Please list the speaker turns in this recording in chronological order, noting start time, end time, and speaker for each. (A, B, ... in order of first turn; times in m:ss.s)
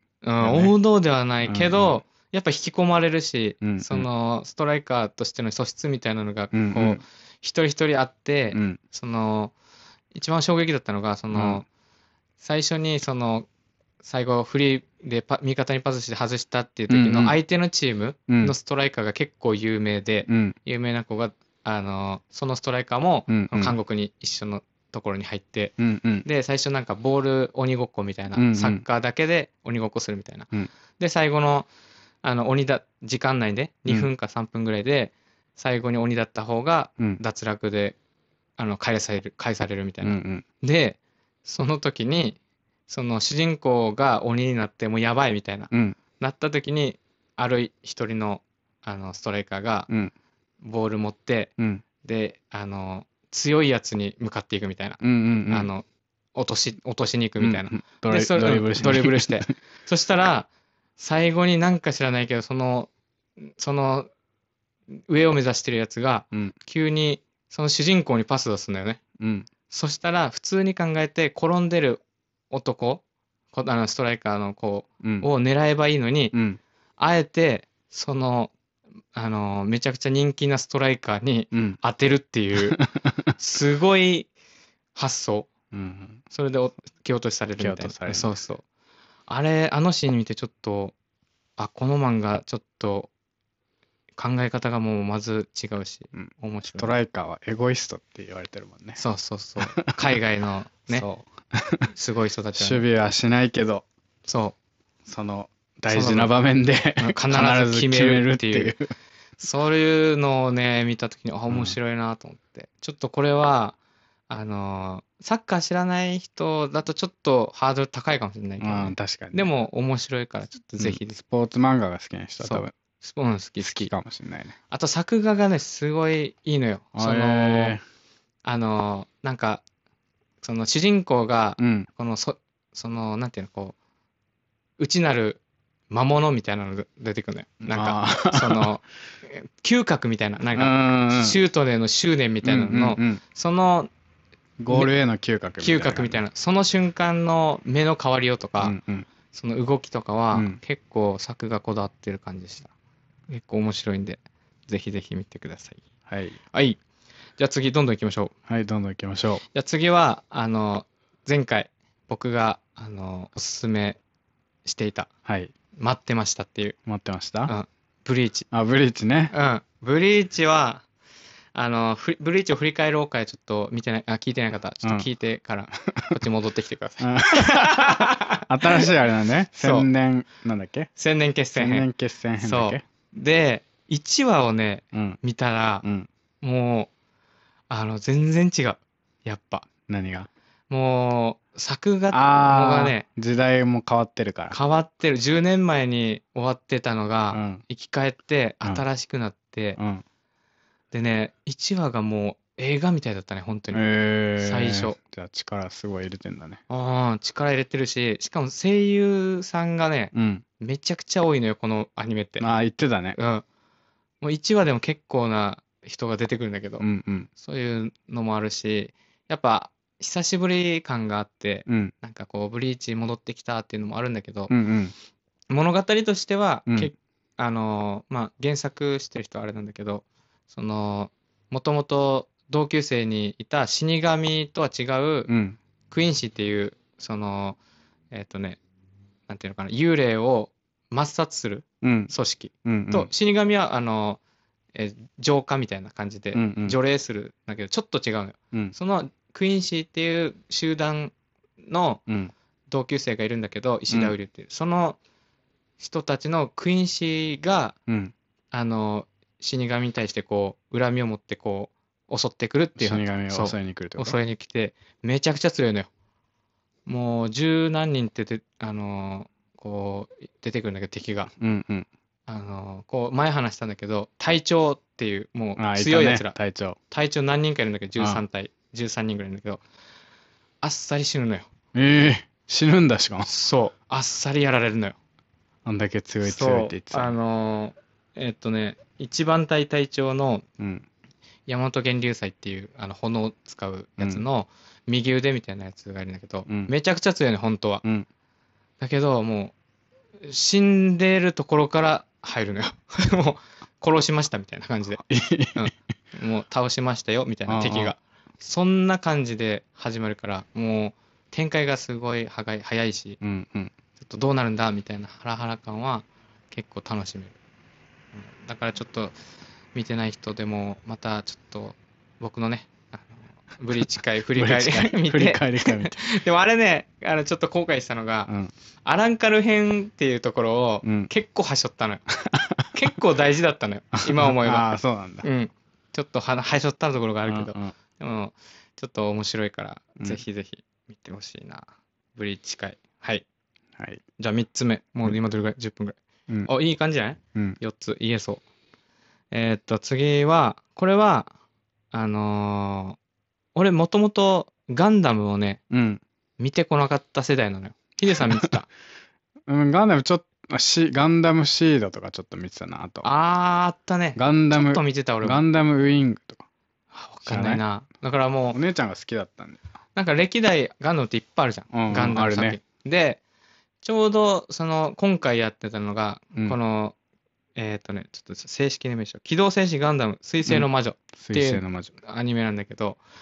0:00.2-0:09.5 A
0:00.4-0:00.7 B
0:01.4-0:02.0 B
0:03.6-0:04.1 B
0:06.5-0:07.0 B
0:08.5-0:08.8 B
0:10.1-0:11.6 A
0:11.3-0:11.6 B
0:12.4-0:13.5 A
0:14.0-0:31.7 A
0:16.9-0:17.4 B
0:18.3-0:18.5 B
0:20.3-0:20.6 B
0:23.3-0:23.7 B
0:25.8-0:26.2 B
0:28.3-0:28.8 B
0:32.2-0:38.0 A
0:38.6-0:49.9 A
0:40.0-0:40.4 B
0:45.7-0:46.0 B
0:50.6-1:02.9 A
0:55.0-0:55.7 B
0:57.4-0:59.5 B
1:03.4-1:04.1 A
1:05.0-1:09.0 A
1:09.2-1:09.5 B
1:09.7-1:16.4 A
1:16.3-1:16.6 B
1:17.0-1:18.5 A
1:19.1-1:22.8 A
1:21.5-1:21.8 B
1:22.6-1:23.3 B
1:23.4-1:24.3 A
1:24.9-1:25.5 A
1:25.7-1:26.2 B
1:26.3-1:28.6 A
1:27.6-1:28.3 B
1:29.3-1:30.9 A
1:31.6-1:33.1 A
1:34.2-1:36.9 A
1:36.1-1:39.0 B
1:39.0-1:41.0 A
1:39.6-1:39.9 B
1:40.9-1:41.9 B
1:41.9-1:42.8 A
1:42.5-1:43.8 B
1:44.3-1:44.5 A
1:45.0-1:48.9 B
1:45.9-1:46.3 A
1:47.0-1:48.7 A
1:49.4-1:53.8 A
1:51.5-1:51.8 B
1:54.3-2:01.2 A
1:58.6-1:59.5 B
2:00.8-2:02.7 B
2:02.4-2:03.9 A
2:03.6-2:04.5 B
2:04.7-2:07.8 A
2:06.9-2:07.8 B
2:08.4-2:09.6 A
2:10.4-2:13.7 A
2:11.6-2:11.9 B
2:14.8-2:23.9 A
2:17.7-2:18.7 B
2:20.5-2:21.4 B
2:22.4-2:23.2 B
2:24.6-2:26.2 B
2:25.6-2:28.8 A
2:28.6-2:29.1 B
2:29.3-2:32.7 A
2:30.3-2:30.6 B
2:33.3-2:35.8 A
2:36.1-2:36.4 B
2:36.5-2:36.8 A
2:37.4-2:38.3 A
2:38.5-2:39.4 B
2:39.5-2:44.0 A
2:44.6-2:45.1 A
2:45.2-2:45.5 B
2:45.8-2:46.8 A
2:46.8-2:47.5 B
2:47.4-2:48.5 A
2:48.5-2:49.3 B
2:49.3-2:50.8 A
2:51.5-2:58.9 A
2:55.9-2:56.2 B
2:57.0-3:00.9 B
2:59.6-2:59.9 A
3:01.0-3:01.9 A
3:01.6-3:02.8 B
3:02.4-3:05.8 A
3:04.9-3:05.2 B
3:06.4-3:06.9 A
3:07.7-3:09.7 A
3:09.9-3:10.3 B
3:10.7-3:13.0 A
3:12.1-3:14.6 B
3:14.5-3:19.8 A
3:17.3-3:17.6 B
3:19.8-3:20.0 B
3:20.9-3:23.8 A
3:23.7-3:26.6 B
3:24.4-3:25.0 A
3:26.7-3:32.5 A
3:30.1-3:30.4 B
3:32.4-3:33.2 B
3:33.1-3:33.4 A
3:34.2-3:36.8 A
3:36.8-3:37.3 B
3:37.4-3:44.5 A
3:41.7-3:41.9 B
3:44.5-3:44.9 B
3:45.5-3:55.3 A
3:55.3-3:55.6 B
3:55.9-3:57.6 A
3:58.1-3:58.6 A
3:59.3-4:04.2 A
4:01.8-4:02.1 B
4:02.6-4:03.1 B
4:04.7-4:11.1 A
4:06.3-4:06.8 B
4:11.6-4:12.0 A
4:12.7-4:15.0 A
4:15.8-4:17.8 A
4:17.9-4:18.1 B
4:18.5-4:25.9 A
4:22.8-4:24.2 B
4:26.8-4:31.3 A
4:31.4-4:31.9 B
4:32.3-4:36.3 A
4:35.6-4:36.8 B
4:36.9-4:39.6 A
4:40.6-4:41.5 A
4:41.7-4:43.3 B
4:43.2-4:45.0 A
4:45.6-4:47.2 B
4:46.2-4:50.4 A
4:50.6-4:50.8 B
4:51.5-4:57.8 A
4:54.0-4:54.2 B
4:56.5-4:56.7 B
4:58.8-4:59.5 A
5:00.2-5:05.0 A
5:05.0-5:05.7 B
5:05.5-5:13.2 A
5:07.5-5:07.9 B
5:13.2-5:13.7 B
5:14.0-5:17.4 A
5:18.1-5:19.1 A
5:19.7-5:28.3 A
5:24.3-5:26.0 B
5:28.8-5:32.0 A
5:30.8-5:31.1 B
5:32.2-5:32.7 B
5:32.7-5:43.2 A
5:34.1-5:35.2 B
5:37.3-5:37.7 B
5:43.8-5:44.0 B
5:44.2-5:48.4 A
5:49.3-5:51.3 A
5:51.9-5:53.0 A
5:53.5-5:55.6 A
5:55.7-5:56.0 B
5:56.4-5:58.7 A
5:59.5-6:03.1 B
6:03.0-6:05.4 A
6:04.2-6:06.5 B
6:06.9-6:08.6 A
6:07.2-6:07.6 B
6:08.5-6:09.6 B
6:10.0-6:13.2 A
6:11.7-6:12.6 B
6:13.8-6:16.9 A
6:17.6-6:23.0 A
6:21.2-6:21.9 B